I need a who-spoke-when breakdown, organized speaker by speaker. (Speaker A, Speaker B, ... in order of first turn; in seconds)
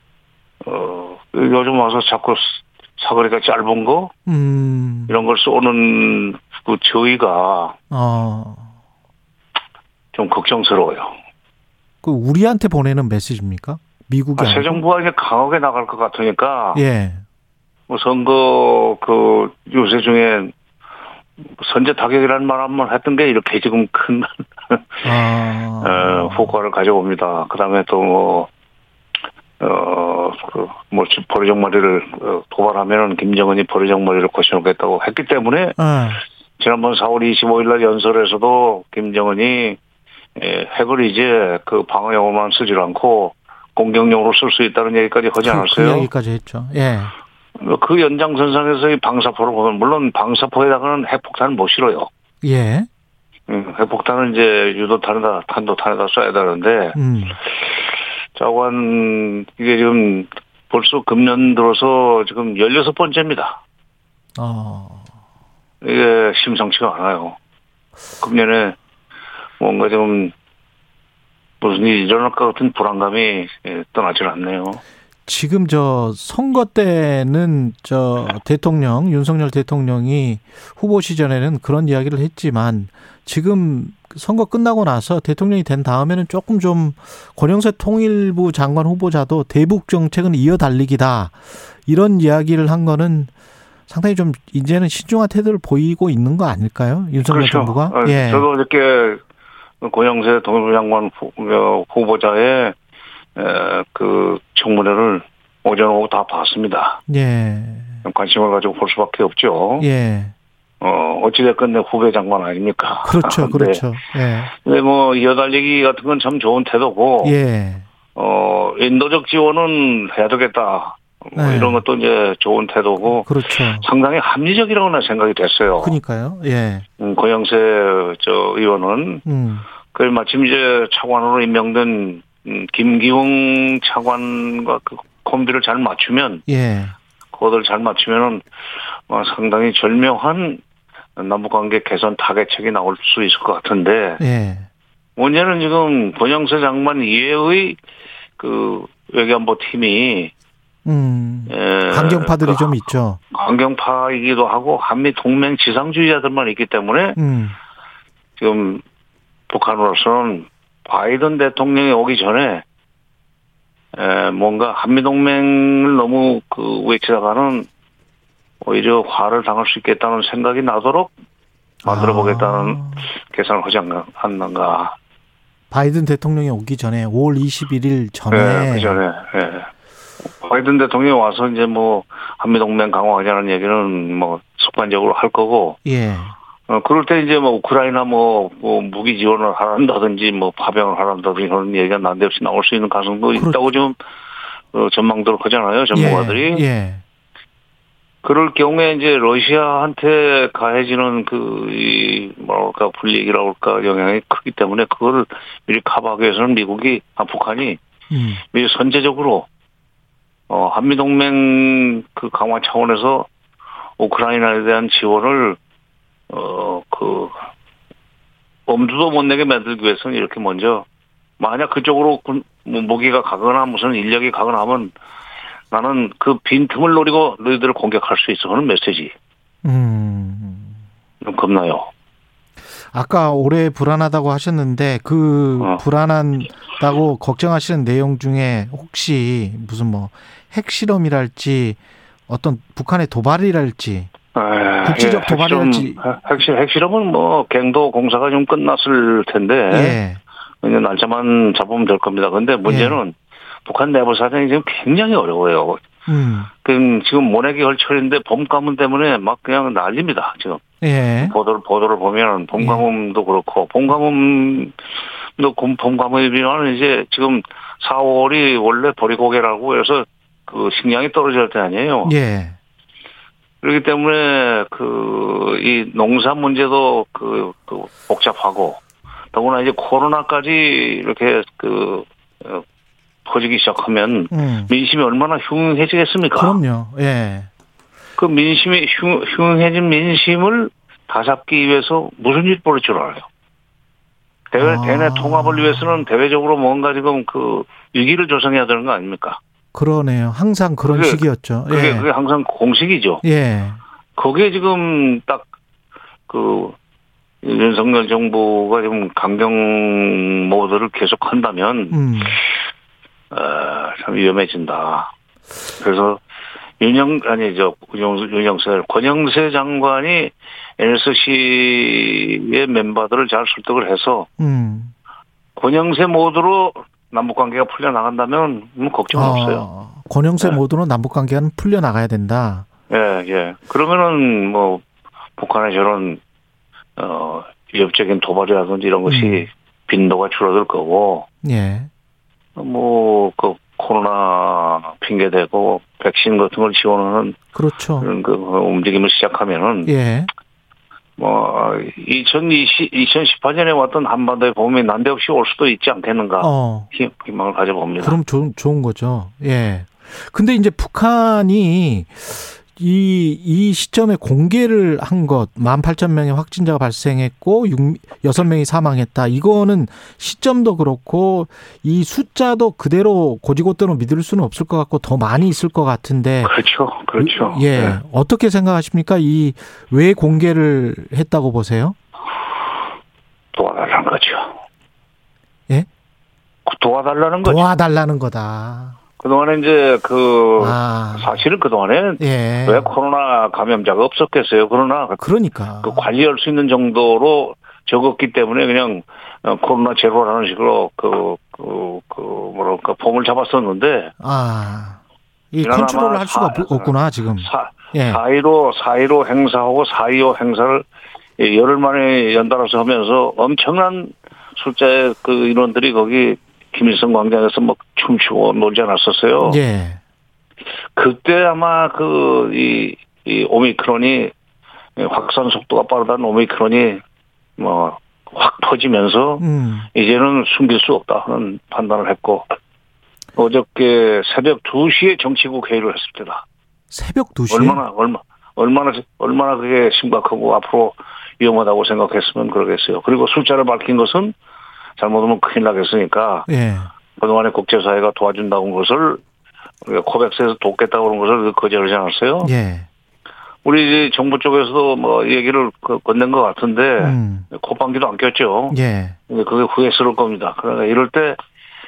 Speaker A: 0.6-4.1, 5.1-7.8, 10.1-11.1, 14.4-16.8, 17.9-20.5, 21.6-25.1, 25.8-28.5, 29.6-35.8, 36.6-39.8, 40.4-46.1, 47.6-52.1, 53.5-63.6, 65.8-67.4, 68.2-68.8, 69.6-70.3, 71.6-74.8, 97.3-99.2, 99.8-102.8, 103.3-107.0, 108.0-109.9, 110.8-113.8, 114.5-117.3, 118.1-126.0, 127.0-129.2, 129.9-136.4, 137.3-138.4, 139.1-140.6, 141.2-144.2, 145.2-147.8, 148.4-150.3, 151.5-152.8, 153.3-157.2, 158.4-158.8, 159.5-162.6, 163.9-167.7, 168.6-171.1, 171.8-174.9, 178.3-179.7, 180.4-185.8, 186.7-194.0, 194.7-196.6, 198.2-207.8, 208.5-209.5, 210.5-213.3, 214.0-215.6, 216.3-217.4, 218.7-220.9, 221.4-224.9, 225.7-229.1, 231.2-231.9, 235.6-235.8, 244.3-250.0, 250.6-255.8, 256.6-260.6, 261.2-264.8, 265.4-272.1, 273.6-278.8, 279.3-282.6, 283.2-286.6, 288.2-293.3, 294.5-299.4, 300.9-303.2, 304.1-305.5, 306.3-306.8, 307.4-312.4, 313.3-315.1, 315.8-316.2, 316.8-324.3, 325.6-329.6, 332.9-334.8, 335.4-336.2, 337.0-341.2, 342.6-347.4, 348.0-349.9, 351.2-358.2, 376.4-378.0, 383.5-384.6, 386.6-387.6, 389.2-395.2, 395.8-404.1, 405.6-410.9, 411.4-419.6, 421.0-424.3, 425.0-427.0, 427.6-432.5, 433.4-436.4, 437.5-444.3, 445.0-446.5, 447.1-449.2, 449.9-452.5, 453.6-461.4
Speaker B: 4.3-5.2, 7.9-8.7, 12.0-14.8, 16.7-17.2, 25.0-26.6, 35.8-36.2, 45.4-47.1, 52.4-52.9, 56.9-57.4, 64.4-65.0, 75.2-93.3, 93.9-98.5, 107.1-108.0, 109.8-110.3, 113.0-114.5, 117.2-117.8, 121.3-121.8, 123.1-123.9, 125.8-126.8, 129.2-129.6, 136.5-136.9, 144.2-144.7, 150.8-153.2, 157.2-157.6, 171.8-173.1, 175.7-179.0, 185.8-186.3, 195.9-197.0, 208.1-208.4, 229.6-230.7, 232.9-244.1, 244.8-246.0, 249.7-250.2, 252.7-253.0, 256.1-256.5, 260.8-261.4, 262.6-262.8, 272.1-272.6, 284.3-284.7, 286.4-287.5, 294.6-296.1, 299.7-302.1, 303.2-303.8, 311.9-312.4, 324.4-324.9, 329.1-332.6, 339.1-339.5, 341.4-341.9, 347.5-348.1, 349.9-350.3, 356.4-356.9, 358.0-376.6, 377.2-382.0, 387.4-389.0, 390.6-391.4, 392.2-392.9, 395.2-396.1, 404.2-405.0, 405.5-408.2, 419.4-420.0, 429.4-429.9, 436.9-437.8, 446.5-446.9, 452.4-452.9, 457.0-457.5, 458.7-459.2